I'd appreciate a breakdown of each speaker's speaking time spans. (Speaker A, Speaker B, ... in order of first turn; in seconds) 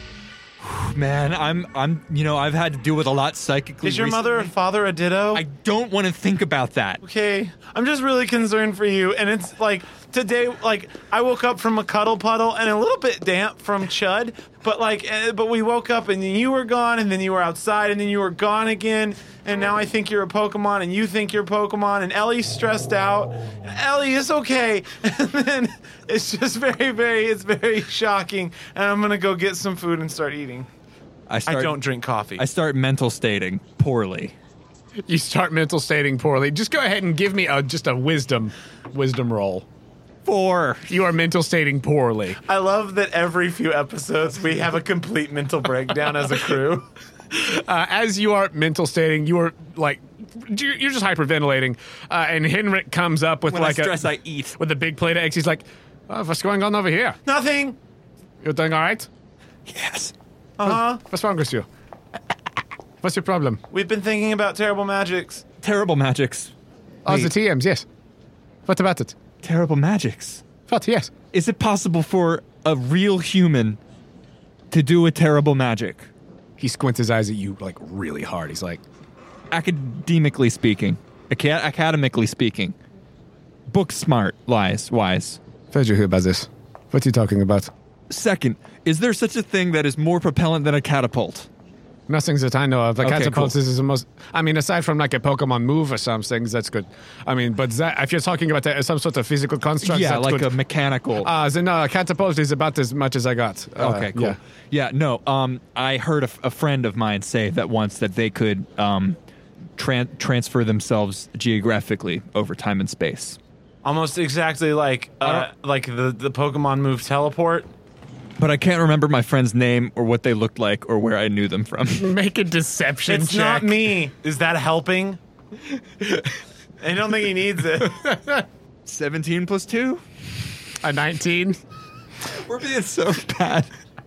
Speaker A: 0.6-4.5, 5.3-7.0, 31.3-31.7, 32.4-34.4, 40.2-40.9, 53.5-54.5, 59.7-60.1, 65.6-66.5, 67.1-67.3, 69.4-70.4, 71.3-73.8, 74.7-76.1, 79.5-82.8, 83.7-85.4, 88.1-91.5, 93.0-93.6, 99.8-101.3, 103.8-109.2, 109.8-113.4, 115.2-115.5, 118.4-122.1, 128.8-130.0, 132.3-133.7
Speaker B: 3.8-5.4, 7.0-30.7, 31.5-32.4, 42.4-46.9, 57.3-57.8, 60.6-61.0, 63.7-65.4, 113.8-117.7, 123.1-125.2, 126.8-128.0
Speaker C: 35.1-39.7, 40.9-42.4, 47.3-57.2, 58.4-59.1, 60.6-61.7, 63.0-63.6, 67.0-67.8, 68.7-69.2, 70.7-71.1, 76.6-78.8, 85.7-87.7, 92.1-100.6, 101.2-104.4, 122.0-123.8, 127.8-128.4, 130.8-131.6